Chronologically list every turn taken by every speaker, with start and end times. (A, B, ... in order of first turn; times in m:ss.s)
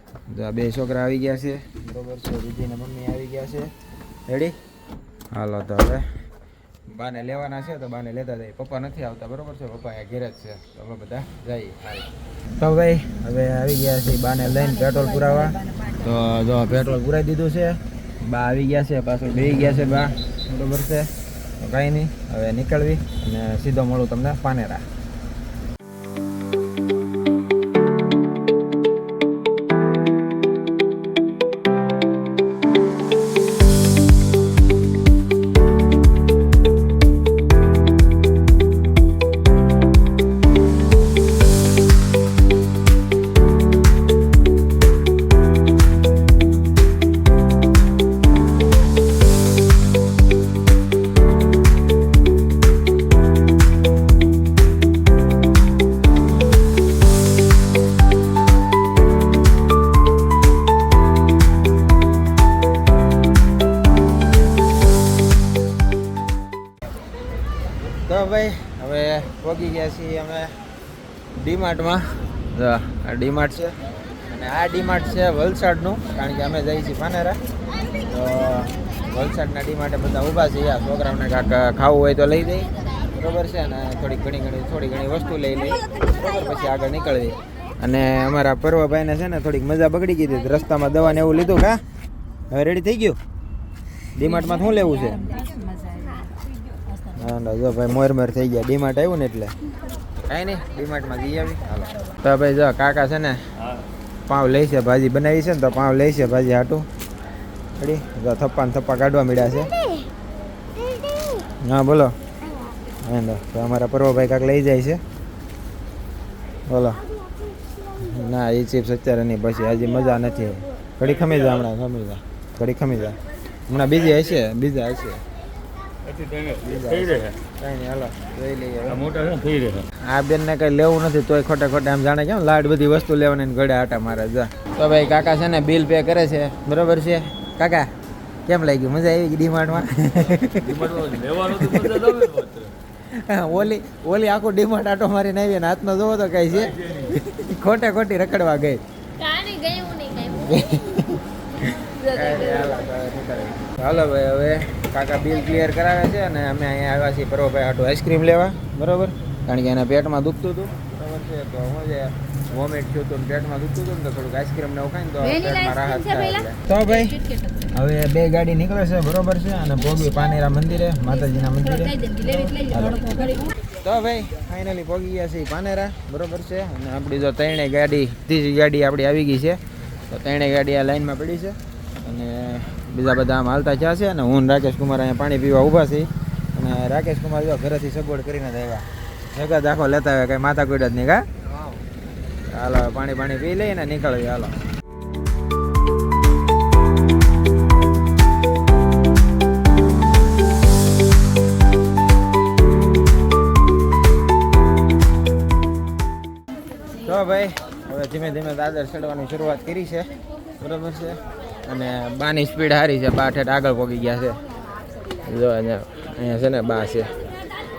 0:00.3-0:03.7 A
0:04.3-0:04.6 A
0:05.3-0:06.1 A
0:06.9-0:24.8 A
1:08.0-1:10.6 A
1:11.4-1:17.4 A
1:18.0-1:31.8 A
1:32.5-1:33.2 A
1:34.2-1:35.4 A
1:37.1-1:39.6 A
1:40.2-1:43.4 A
1:44.3-1:46.9 A
1:47.8-1:49.8 A
1:51.6-1:52.1 A
1:53.0-1:55.0 A
1:56.7-1:57.0 A
1:58.0-2:05.2 A
2:06.0-2:07.3 B
2:06.6-2:09.1 A
2:08.9-2:09.9 B
2:10.0-2:17.9 A
2:18.5-2:22.1 A
2:20.4-2:22.7 B
2:23.1-2:28.8 A
2:29.2-2:30.5 C
2:30.2-2:52.1 A
2:32.0-2:32.6 C
2:45.3-2:46.4 C
2:47.1-2:47.6 C
2:51.9-2:53.5 C
2:52.7-3:11.3 A
3:12.5-3:14.6 A
3:27.0-3:34.4 A
3:35.2-3:37.1 A